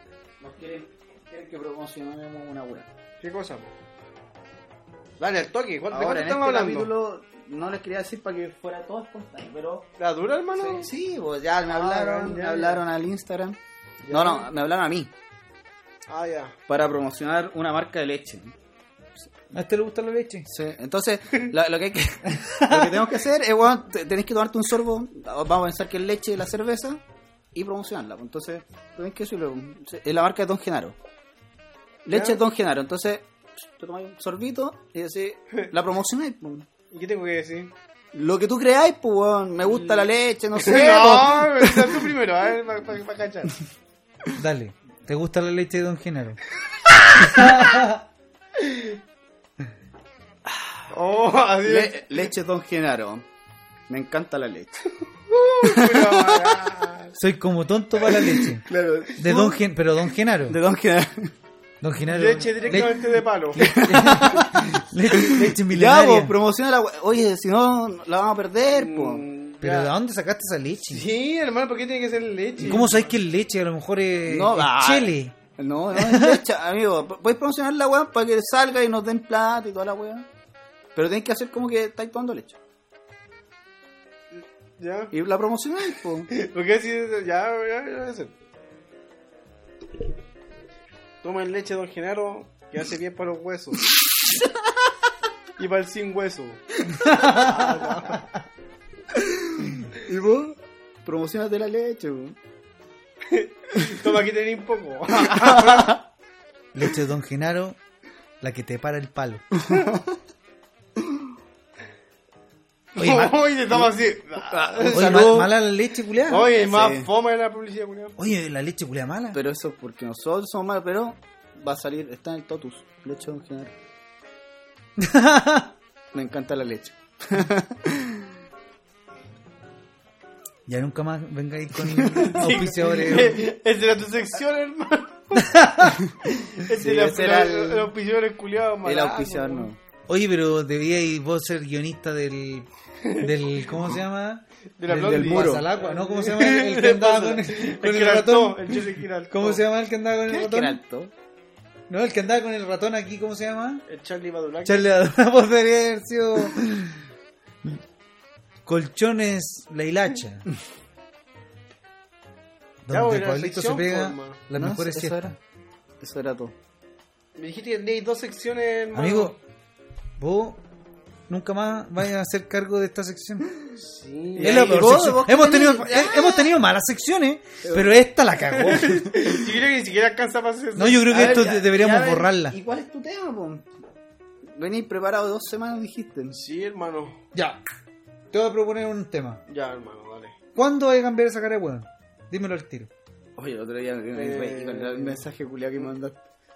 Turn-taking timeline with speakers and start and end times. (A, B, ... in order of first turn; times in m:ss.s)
0:00.4-0:02.9 A
0:03.2-0:03.7 B
0:05.2-0:06.9 B
0:05.9-0:09.9 A
0:10.0-0:10.9 B
0:10.6-0:13.6 A
0:11.7-0:12.8 B
0:14.0-0:14.5 B
0:14.1-0:15.1 A
0:16.1-0:16.5 B
0:16.7-0:18.5 A
0:19.5-0:20.5 C
0:20.5-0:27.0 A
0:22.3-0:23.1 C
0:27.5-0:31.0 A
0:32.0-0:36.6 A
0:32.1-0:32.4 B
0:36.9-0:37.7 B
0:38.1-0:42.0 A
0:39.7-0:43.6 B
0:44.3-0:46.4 C
0:47.2-0:48.0 C
0:48.6-0:48.9 B
0:50.9-0:52.2 B
0:51.6-0:53.2 A
0:53.9-0:54.9 A
0:55.3-0:57.2 B
0:55.6-0:56.6 A
0:57.2-0:58.6 C
0:58.3-0:59.6 A
0:59.2-1:00.6 C
1:00.4-1:01.3 A
1:01.8-1:06.3 C
1:02.1-1:03.7 B
1:03.5-1:09.2 A
1:08.7-1:09.9 B
1:09.6-1:11.0 C
1:10.9-1:13.1 B
1:12.6-1:15.3 C
1:14.3-1:20.3 A
1:15.9-1:16.4 C
1:20.9-1:22.6 A
1:24.4-1:25.1 B
1:25.1-1:26.3 A
1:26.3-1:28.3 B
1:31.2-1:33.8 B
1:35.6-1:38.2 B
1:37.0-1:37.7 C
1:39.1-1:42.4 A
1:43.3-1:46.0 B
1:45.2-1:46.0 A
1:46.7-1:47.8 C
1:48.4-1:49.6 C
1:49.6-1:50.1 A
1:52.9-1:55.4 B
1:53.0-1:53.9 C
1:54.4-1:55.5 A
1:54.9-1:56.5 C
1:56.3-1:58.2 B
1:56.6-1:57.1 A
1:58.2-1:59.4 C
1:59.3-2:03.7 A
2:05.0-2:05.7 C
2:06.1-2:08.3 A
2:10.7-2:13.4 C
2:12.2-2:15.6 B
2:15.3-2:16.0 C
2:16.0-2:17.9 A
2:16.5-2:19.7 B
2:18.8-2:19.8 A
2:20.1-2:30.8 C
2:23.0-2:23.3 B
2:24.8-2:29.6 B
2:24.9-2:25.7 A
2:30.3-2:31.1 A
2:31.9-2:33.8 C
2:33.9-2:34.9 B
2:34.6-2:37.0 C
2:38.6-2:40.4 C
2:42.8-2:45.4 C
2:42.9-2:44.4 B
2:44.5-2:45.4 A
2:46.0-2:46.5 A
2:47.4-2:49.4 B
2:48.9-2:49.4 C
2:50.2-2:50.6 C
2:51.3-2:53.6 C
2:53.7-2:55.0 B
2:54.4-2:56.5 A
2:54.4-2:59.2 C
2:57.6-2:57.9 A
2:58.5-3:01.5 B
3:00.7-3:02.6 C
3:01.1-3:03.6 A
3:04.5-3:06.4 A
3:06.3-3:07.2 B
3:07.3-3:07.6 C
3:08.3-3:09.4 C
3:09.5-3:10.4 B
3:10.5-3:12.9 C
3:13.4-3:16.2 A
3:14.1-3:15.2 B